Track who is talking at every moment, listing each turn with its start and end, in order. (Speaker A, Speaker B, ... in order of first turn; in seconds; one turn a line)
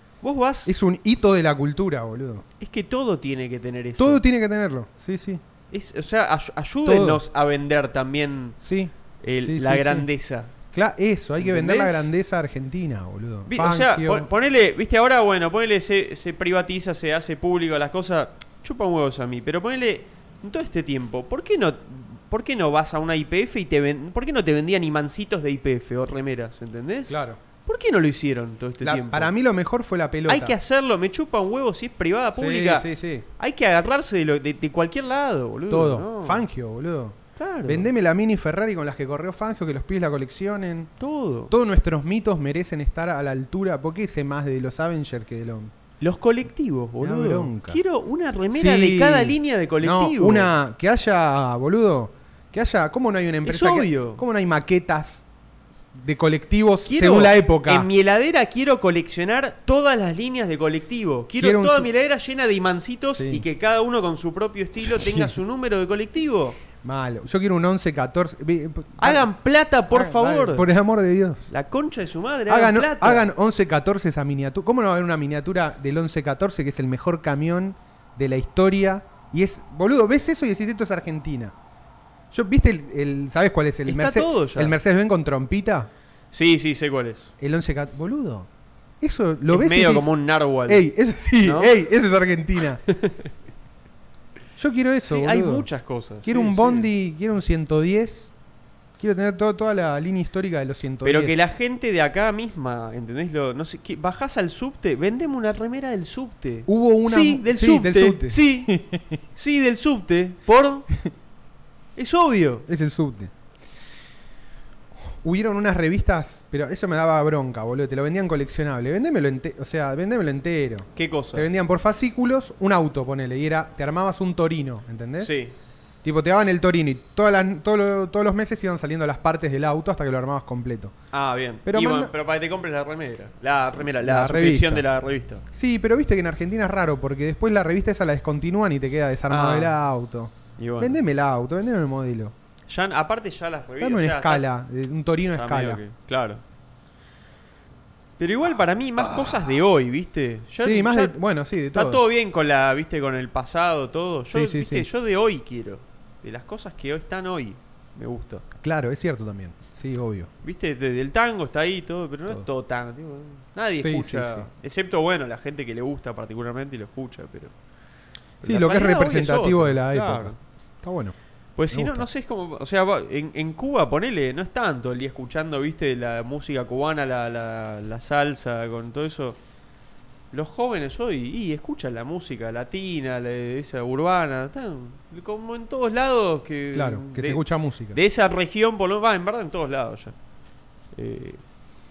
Speaker A: 0.2-0.7
Speaker B: 0.7-2.5
Speaker A: 2.6-4.2
Speaker B: 4.0-5.4
Speaker A: 5.7-8.6
Speaker B: 6.8-7.2
Speaker B: 8.6-10.1
Speaker A: 9.2-10.5
Speaker B: 10.7-14.3
Speaker A: 11.4-12.1
Speaker A: 13.5-29.3
Speaker B: 27.1-27.4
Speaker B: 28.8-30.6
Speaker A: 30.3-36.5
Speaker B: 32.3-33.3
Speaker B: 35.7-40.9
Speaker A: 37.4-37.9
Speaker A: 41.0-41.5
Speaker B: 41.5-45.7
Speaker A: 46.0-50.5
Speaker B: 47.0-47.8
Speaker B: 48.5-55.3
Speaker A: 53.5-54.2
Speaker B: 55.9-57.9
Speaker A: 56.9-66.6
Speaker B: 61.4-61.9
Speaker B: 63.1-63.5
Speaker B: 64.9-65.4
Speaker B: 66.8-69.3
Speaker A: 69.0-70.7
Speaker B: 69.9-71.5
Speaker A: 71.5-73.3
Speaker B: 72.5-81.5
Speaker B: 82.3-85.9
Speaker A: 83.9-84.8
Speaker A: 86.3-87.3
Speaker B: 87.4-88.5
Speaker B: 89.0-90.1
Speaker A: 89.5-90.9
Speaker B: 90.7-92.8
Speaker A: 91.4-91.8
Speaker A: 92.9-93.3
Speaker B: 94.6-95.7
Speaker A: 95.1-96.9
Speaker B: 96.2-98.3
Speaker B: 99.0-101.4
Speaker A: 101.0-108.8
Speaker B: 106.7-109.2
Speaker A: 109.4-110.9
Speaker A: 112.0-112.7
Speaker B: 112.7-113.3
Speaker B: 115.2-125.4
Speaker A: 121.0-121.5
Speaker A: 125.2-125.5
Speaker B: 126.0-130.9
Speaker A: 131.1-135.4
Speaker B: 131.7-132.1
Speaker B: 134.0-134.9
Speaker B: 135.5-142.3
Speaker A: 139.3-139.8
Speaker A: 140.6-141.0
Speaker A: 142.7-144.5
Speaker B: 143.8-145.8
Speaker A: 145.3-146.4
Speaker A: 148.2-151.2
Speaker B: 149.0-149.5
Speaker B: 150.6-152.0
Speaker A: 151.7-158.4
Speaker B: 154.3-154.9
Speaker B: 158.6-160.3
Speaker A: 160.4-167.5
Speaker B: 163.8-164.5
Speaker A: 168.4-170.4
Speaker B: 168.4-171.2
Speaker A: 171.6-179.4
Speaker B: 171.7-172.1
Speaker A: 180.3-190.1
Speaker B: 186.7-188.0
Speaker A: 190.9-191.4